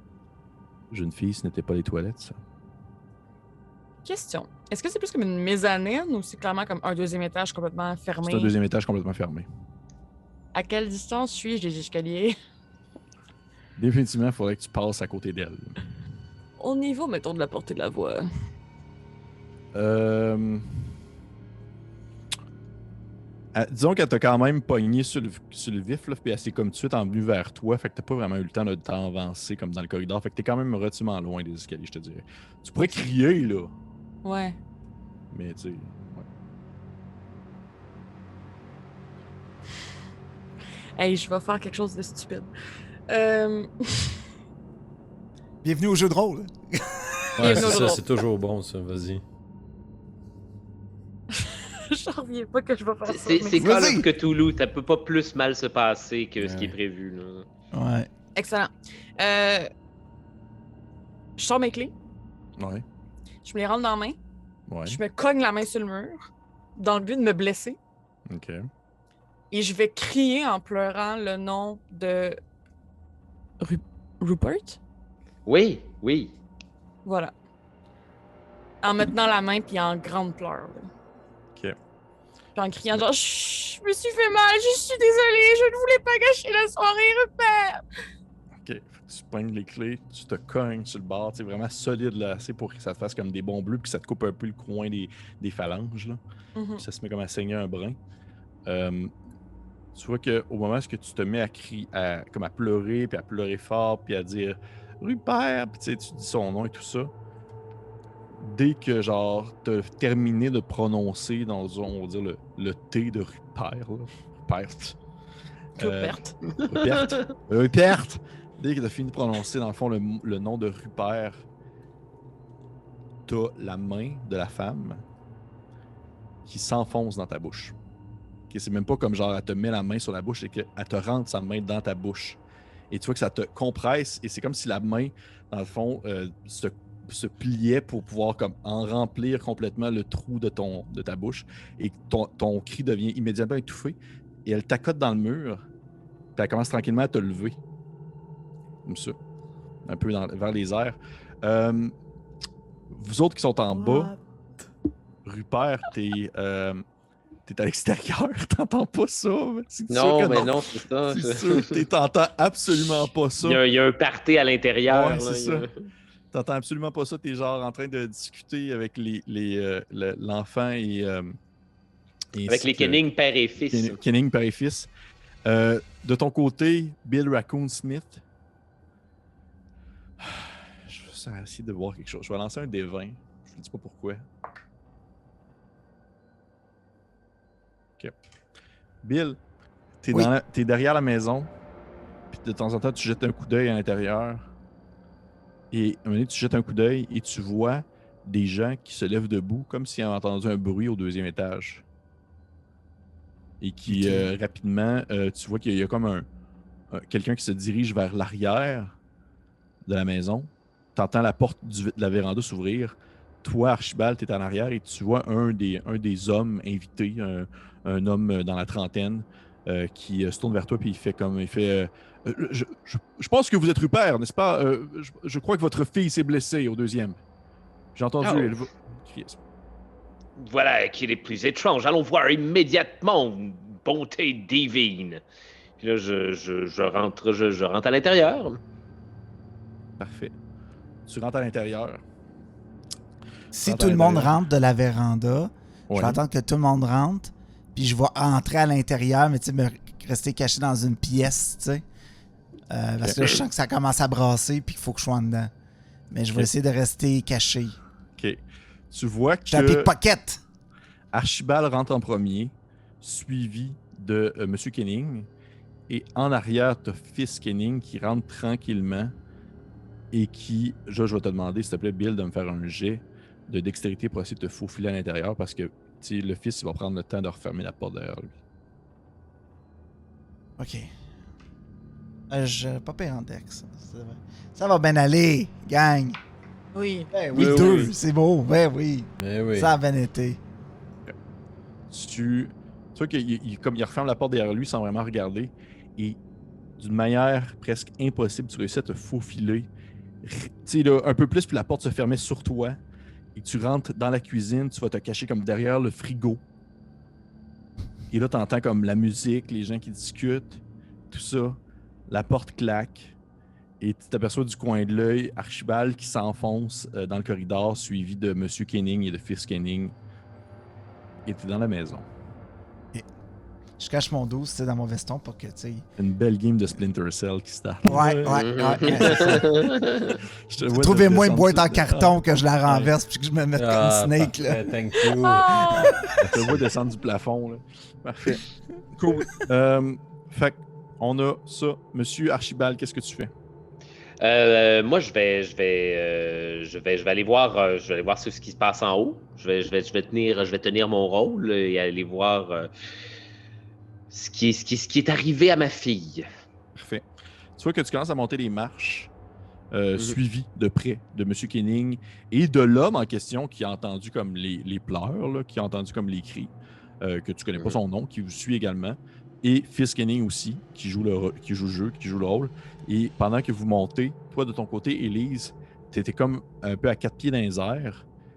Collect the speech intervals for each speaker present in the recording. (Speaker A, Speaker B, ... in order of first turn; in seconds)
Speaker A: 0.9-2.4, 8.2-9.5, 13.8-15.8, 19.7-20.9, 23.5-33.7, 35.3-36.2, 62.6-62.8, 64.7-65.0, 68.3-68.7, 88.6-96.2, 96.8-98.0, 98.7-99.1, 99.9-107.1, 108.3-115.0, 115.8-121.4, 123.2-125.0, 126.5-127.7, 128.5-132.4, 132.9-145.6, 146.3-147.6, 148.8-149.2, 149.8-151.9, 152.9-154.1, 155.2-156.8, 157.4-163.6, 164.8-165.7, 166.3-171.3, 172.3-173.0, 173.7-174.9, 175.4-178.2, 180.2-184.2, 189.0-189.4, 190.0-191.5, 192.3-194.5, 195.7-201.8, 203.6-206.3, 206.9-208.9, 209.8-227.2, 227.9-229.4, 240.0-240.3, 241.1-242.0, 243.6-244.3, 245.9-246.2, 258.2-259.9, 261.1-265.3, 265.9-269.1, 270.1-278.3, 287.3-287.9, 291.9-296.2, 296.8-299.7, 300.2-302.8, 303.3-306.4, 308.1-313.1, 313.8-319.9, 321.2-322.1, 326.0-328.2, 330.5-332.2, 336.2-338.4, 338.9-343.3, 356.7-357.0, 357.6-359.1, 359.7-378.1
Speaker B: 4.0-8.5, 10.5-12.3, 16.6-18.3, 34.2-34.6, 41.0-42.5, 43.1-44.2, 47.4-48.0, 51.3-53.7, 58.3-59.7, 61.4-61.9, 63.4-64.2, 64.8-67.8, 69.5-72.4, 73.6-74.8, 77.0-77.3, 78.8-80.9, 82.5-87.8, 96.5-96.8, 115.8-116.3, 286.7-287.1, 335.1-335.9
Speaker C: 45.6-47.7, 53.6-54.1, 57.7-58.1, 203.9-204.3, 243.5-251.8, 252.7-255.5, 256.1-257.8, 259.5-260.4, 280.6-280.9, 282.3-286.2, 287.1-290.4, 323.8-325.8, 327.8-329.6, 330.7-334.6, 335.7-336.1
Speaker D: 47.4-49.2, 56.4-56.7, 287.3-287.9, 289.2-289.7, 327.9-329.2, 333.6-336.4
Speaker E: 53.1-57.5, 75.5-76.3, 159.9-161.8, 162.8-165.7, 172.5-174.0, 228.2-228.5, 230.4-235.2, 235.8-238.6, 328.2-330.2, 344.2-352.7, 354.1-356.3